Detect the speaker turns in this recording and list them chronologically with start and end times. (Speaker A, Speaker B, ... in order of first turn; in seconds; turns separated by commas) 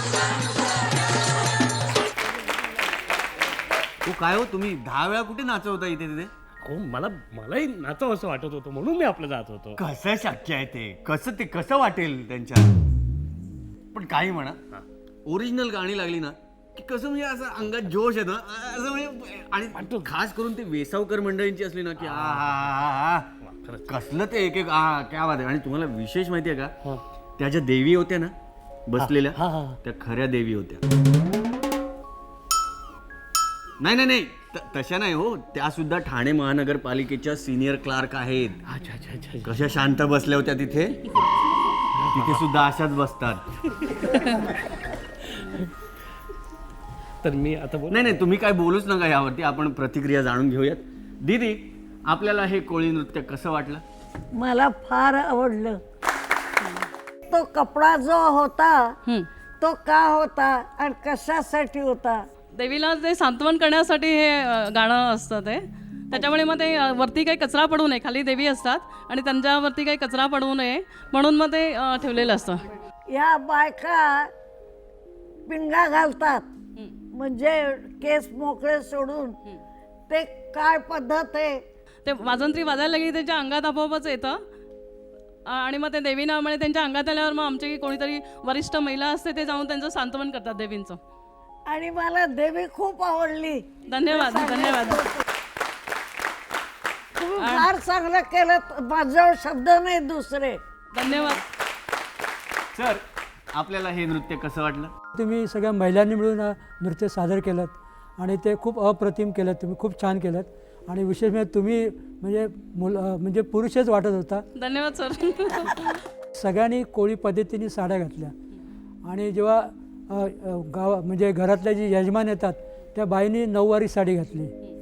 Speaker A: 4.0-6.3, Speaker B: 6.7-9.8, Speaker A: 9.8-12.7, Speaker A: 13.9-14.6, Speaker A: 15.3-23.3, Speaker B: 23.5-23.8, Speaker A: 23.9-26.7, Speaker A: 27.4-28.3, Speaker A: 28.9-30.8, Speaker B: 29.0-29.8, Speaker A: 33.8-38.6, Speaker B: 38.7-39.5, Speaker A: 39.4-41.0, Speaker A: 42.1-43.4, Speaker B: 47.2-48.0, Speaker A: 47.9-53.8, Speaker C: 54.3-55.8, Speaker C: 57.2-58.9, Speaker C: 59.6-62.2, Speaker D: 62.5-72.7, Speaker C: 73.1-74.3, Speaker C: 75.5-76.5, Speaker C: 77.1-79.4, Speaker C: 80.1-81.6, Speaker D: 82.0-84.4, Speaker D: 85.5-91.0, Speaker C: 91.7-95.2, Speaker D: 93.9-95.1, Speaker C: 97.2-100.6, Speaker D: 97.4-97.7, Speaker D: 100.9-101.4, Speaker A: 102.7-104.9, Speaker E: 105.1-114.4, Speaker D: 114.5-116.0, Speaker E: 116.3-118.3, Speaker E: 119.0-124.5